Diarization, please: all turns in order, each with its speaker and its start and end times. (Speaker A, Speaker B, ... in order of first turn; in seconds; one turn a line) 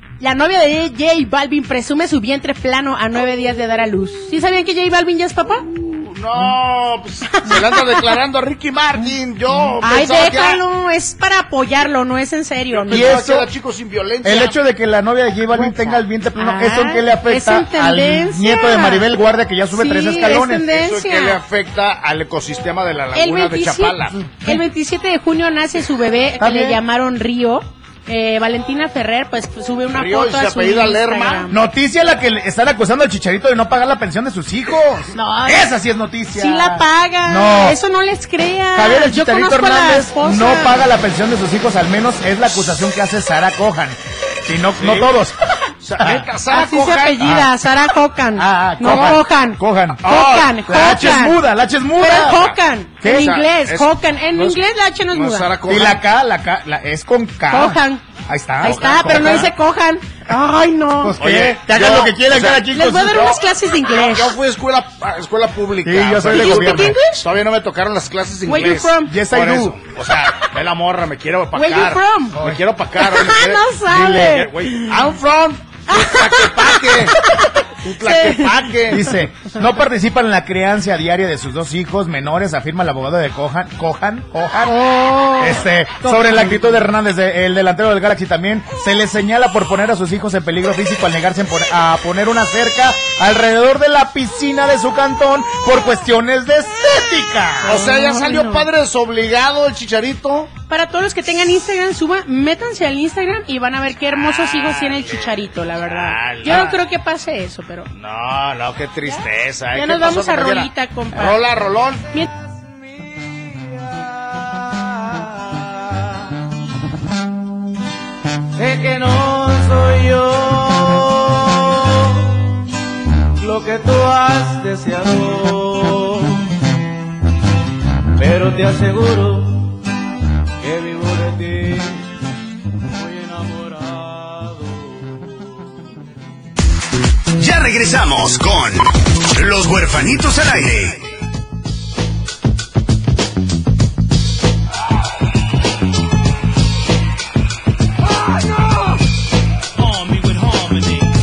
Speaker A: 0.2-5.7
Speaker B: 5.7-10.6
Speaker A: 7.3-8.1
Speaker A: 9.8-13.2
Speaker B: 12.7-14.6
Speaker C: 12.9-13.5
Speaker C: 14.2-20.7
Speaker A: 15.6-19.1
Speaker A: 19.7-21.4
Speaker B: 20.7-24.2
Speaker A: 23.1-31.6
Speaker C: 26.4-26.8
Speaker B: 29.9-31.5
Speaker C: 31.5-37.8
Speaker A: 35.1-35.7
Speaker A: 36.3-40.8
Speaker C: 38.7-45.4
Speaker B: 44.8-45.1
Speaker B: 45.8-47.3
Speaker C: 46.0-46.3
Speaker A: 46.5-51.4
Speaker C: 47.2-47.5
Speaker C: 48.4-52.5
Speaker B: 50.0-50.5
Speaker A: 52.0-55.5
Speaker C: 53.0-53.4
Speaker B: 53.0-56.0
Speaker C: 55.7-59.5
Speaker A: 57.5-58.0
Speaker A: 58.6-61.1
Speaker B: 58.6-59.5
Speaker C: 61.0-63.4
Speaker B: 61.2-62.7
Speaker A: 62.7-64.3
Speaker B: 63.9-77.3
Speaker C: 65.8-67.0
Speaker A: 66.3-67.2
Speaker A: 68.5-69.1
Speaker C: 69.0-69.8
Speaker A: 71.5-72.4
Speaker A: 73.0-75.0
Speaker C: 73.9-74.4
Speaker A: 75.9-77.5
Speaker B: 77.8-79.2
Speaker A: 78.0-78.5
Speaker C: 78.9-97.8
Speaker A: 84.7-86.6
Speaker A: 97.6-98.7
Speaker B: 97.7-100.5
Speaker A: 100.7-107.9
Speaker B: 104.1-106.8
Speaker B: 107.9-112.1
Speaker A: 109.7-111.4
Speaker D: 112.8-116.0
Speaker D: 118.6-122.3
Speaker D: 123.4-126.6
Speaker D: 128.2-129.8
Speaker D: 130.6-132.1
Speaker D: 132.9-135.2
Speaker E: 137.4-141.0
Speaker B: 148.1-149.0
Speaker B: 149.8-151.1